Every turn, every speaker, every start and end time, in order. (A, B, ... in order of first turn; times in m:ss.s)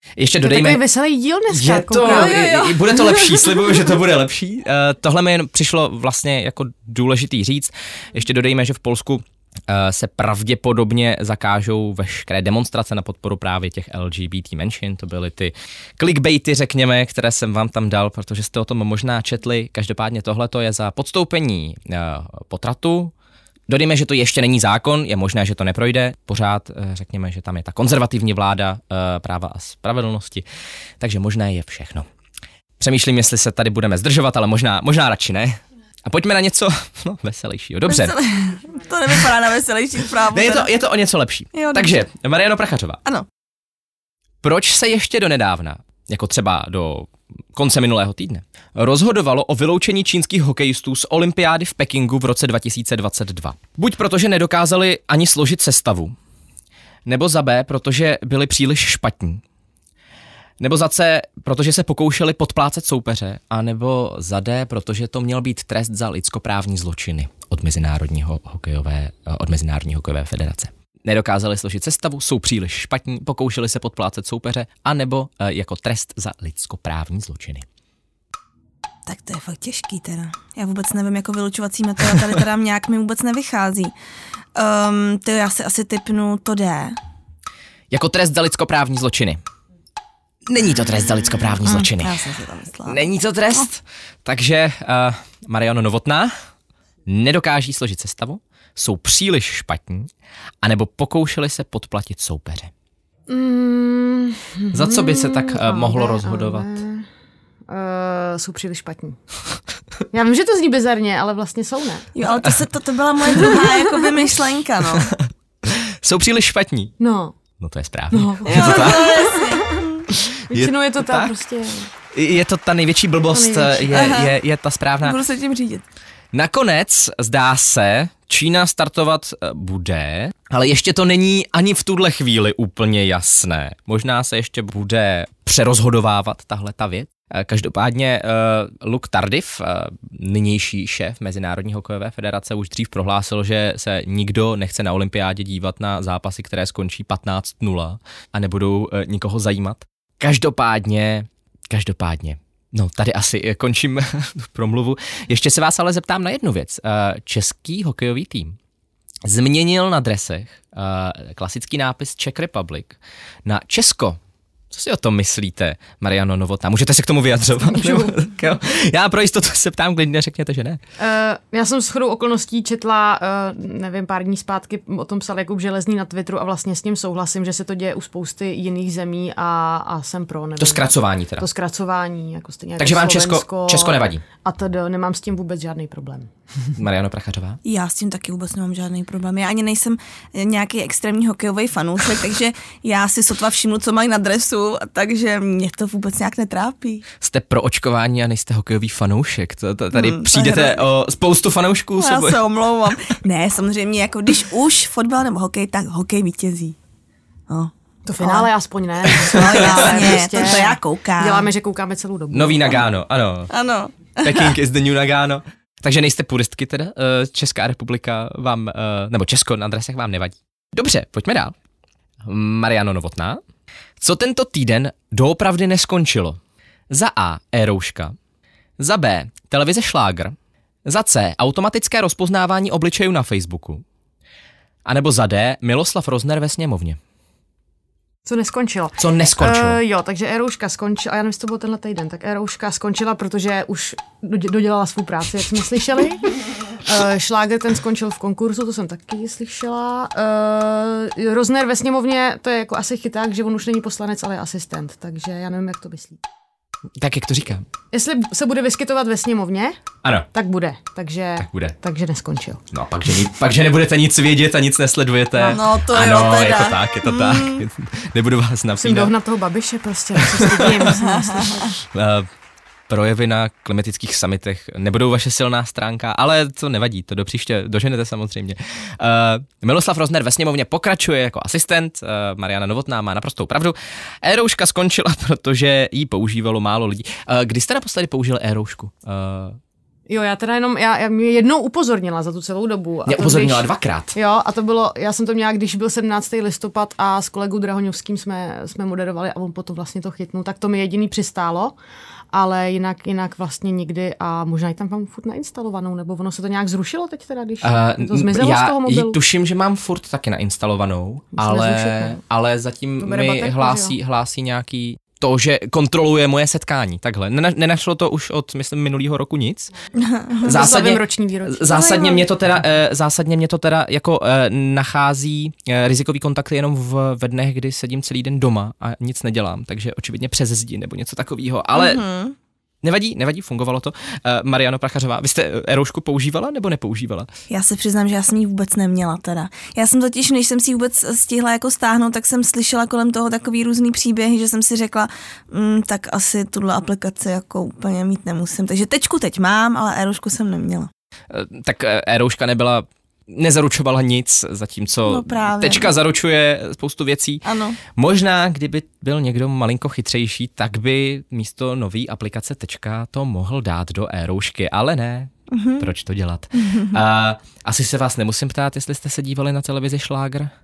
0:00.2-0:00.8 A
0:00.4-0:02.5 B
0:01.5-0:23.1 A
0:02.0-0:03.8 C
0:23.7-0:30.4 A
0:31.0-0:32.0 A
0:32.8-0:38.2 A
0:37.8-0:40.7 C
0:40.3-0:43.0 A
0:41.5-0:42.0 C
0:44.4-0:56.2 A
0:57.0-0:59.4 A
1:00.6-1:17.6 A
1:19.0-1:23.9 C
1:24.5-1:27.0 C
1:27.9-1:29.4 A
1:30.5-1:32.2 A
1:31.7-1:33.0 C
1:32.8-1:36.3 A
1:37.0-1:40.1 A
1:40.6-1:42.7 A
1:43.3-1:47.0 B
1:44.7-1:46.8 A
1:47.7-1:49.2 B
1:50.1-1:52.1 B
1:52.2-1:55.1 C
1:53.5-1:53.8 B
1:55.0-1:56.9 A
1:57.0-1:57.4 B
1:57.6-1:59.4 A
1:58.1-1:59.8 B
1:58.5-2:00.0 C
2:00.5-2:01.9 B
2:00.5-2:01.3 A
2:02.1-2:05.2 A
2:03.3-2:03.9 B
2:03.9-2:04.3 C
2:05.0-2:05.8 C
2:06.3-2:38.6 A
2:39.2-2:44.2 A
2:44.7-2:50.8 A
2:47.7-2:48.2 B
2:51.0-3:06.3 B
3:00.6-3:01.5 A
3:02.8-3:04.2 A
3:06.8-3:07.6 A
3:07.6-3:17.0 C
3:17.2-3:22.4 A
3:19.9-3:20.8 C
3:22.0-3:26.8 C
3:27.5-3:28.5 C
3:28.0-3:32.8 B
3:29.2-3:30.5 A
3:29.3-3:31.5 C
3:32.3-3:33.5 A
3:33.5-3:34.6 C
3:34.2-3:41.5 A
3:42.2-3:43.4 A
3:44.0-3:46.4 A
3:46.9-3:48.2 A
3:48.8-3:53.8 A
3:54.8-3:57.0 A
3:58.2-4:16.2 B
3:59.0-3:59.8 A
4:17.0-4:17.7 A
4:17.9-4:19.8 B
4:20.3-4:22.6 B
4:21.4-4:21.8 A
4:22.7-4:29.1 A
4:25.4-4:27.6 C
4:28.8-4:31.7 B
4:30.2-4:31.0 A
4:31.1-4:31.5 C
4:31.9-4:32.3 A
4:32.9-4:49.6 A
4:50.1-5:01.8 B
4:53.0-4:54.2 A
5:02.3-5:09.2 B
5:07.6-5:19.7 A
5:11.4-5:12.2 B
5:13.0-5:14.0 B
5:20.0-5:20.7 C
5:20.4-5:32.0 A
5:20.4-5:21.9 B
5:21.7-5:22.2 C
5:31.7-5:32.4 C
5:32.8-5:37.3 A
5:37.5-5:50.9 C
5:51.3-6:10.5 A
5:55.0-5:55.9 C
5:57.4-5:57.8 C
6:05.5-6:05.9 C
6:06.6-6:07.0 C